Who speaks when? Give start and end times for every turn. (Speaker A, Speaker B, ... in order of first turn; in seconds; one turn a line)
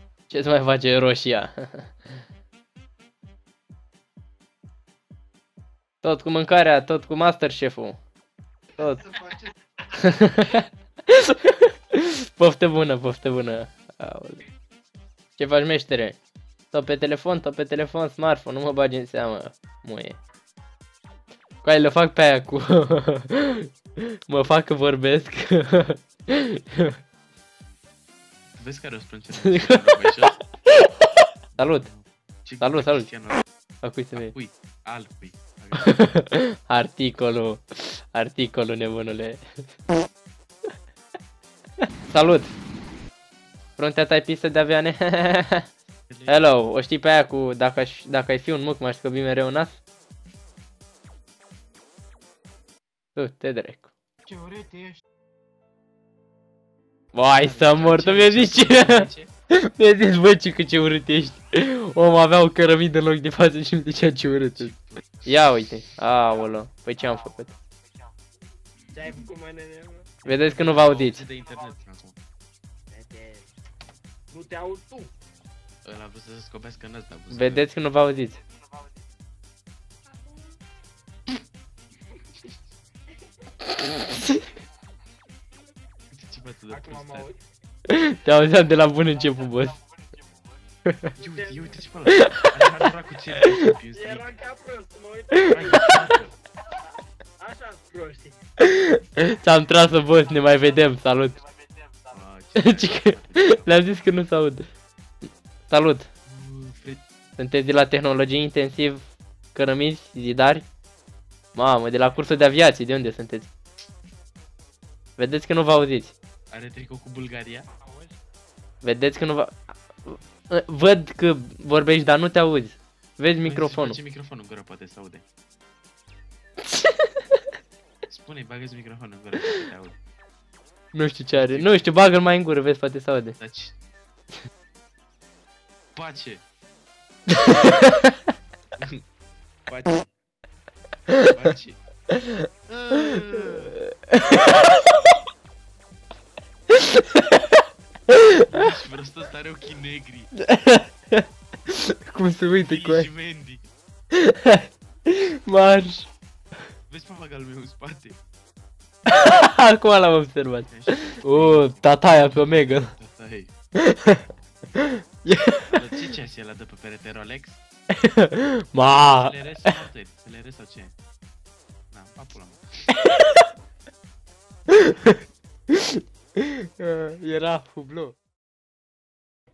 Speaker A: 0.3-1.9
Speaker A: 6.0-8.0
Speaker A: 8.8-9.1
Speaker A: 9.9-14.4
Speaker A: 15.4-16.2
Speaker A: 16.7-20.2
Speaker A: 21.6-23.7
Speaker A: 24.3-27.0
Speaker B: 28.6-30.4
Speaker A: 29.4-29.8
Speaker A: 31.6-31.9
Speaker B: 31.6-33.4
Speaker A: 32.6-33.1
Speaker A: 33.8-34.3
Speaker B: 34.1-36.2
Speaker A: 35.8-39.4
Speaker A: 42.1-42.5
Speaker A: 43.8-45.7
Speaker B: 46.1-46.5
Speaker A: 46.3-49.8
Speaker A: 53.1-53.9
Speaker C: 54.4-54.9
Speaker A: 57.1-67.5
Speaker B: 57.3-59.3
Speaker B: 64.6-65.2
Speaker C: 68.9-70.1
Speaker A: 70.2-71.2
Speaker B: 70.3-72.2
Speaker C: 72.9-73.5
Speaker C: 74.3-75.1
Speaker B: 75.8-77.7
Speaker A: 77.3-78.4
Speaker B: 86.1-87.3
Speaker C: 86.7-87.4
Speaker A: 87.9-89.8
Speaker A: 90.8-91.1
Speaker B: 91.2-94.3
Speaker C: 91.3-91.7
Speaker A: 92.1-92.5
Speaker C: 93.9-95.9
Speaker A: 95.4-95.9
Speaker B: 95.4-96.3
Speaker C: 97.4-98.4
Speaker A: 98.6-101.4
Speaker B: 102.1-103.7
Speaker A: 102.5-104.7
Speaker A: 105.7-106.1
Speaker B: 106.3-107.0
Speaker A: 107.4-110.7
Speaker A: 111.5-113.5
Speaker A: 115.2-116.1
Speaker B: 116.5-117.7
Speaker A: 118.8-124.0
Speaker B: 123.4-125.2
Speaker A: 126.7-127.1
Speaker B: 128.1-129.9
Speaker A: 130.9-133.4
Speaker B: 131.3-131.8
Speaker B: 133.4-133.8
Speaker B: 135.9-136.4
Speaker A: 137.3-138.2
Speaker B: 139.7-140.1
Speaker B: 141.2-141.8
Speaker B: 142.7-143.8
Speaker A: 143.8-144.9
Speaker A: 146.7-147.6
Speaker A: 148.1-148.5
Speaker B: 148.5-150.3
Speaker A: 150.3-153.1
Speaker B: 152.7-153.7
Speaker A: 154.1-156.1
Speaker B: 156.9-158.2
Speaker A: 159.1-162.9
Speaker B: 160.7-163.5
Speaker A: 163.8-165.8
Speaker B: 165.7-167.6
Speaker A: 167.9-169.7
Speaker B: 168.8-170.9
Speaker B: 171.9-172.6
Speaker A: 173.0-173.4
Speaker A: 174.7-175.2
Speaker A: 175.7-178.1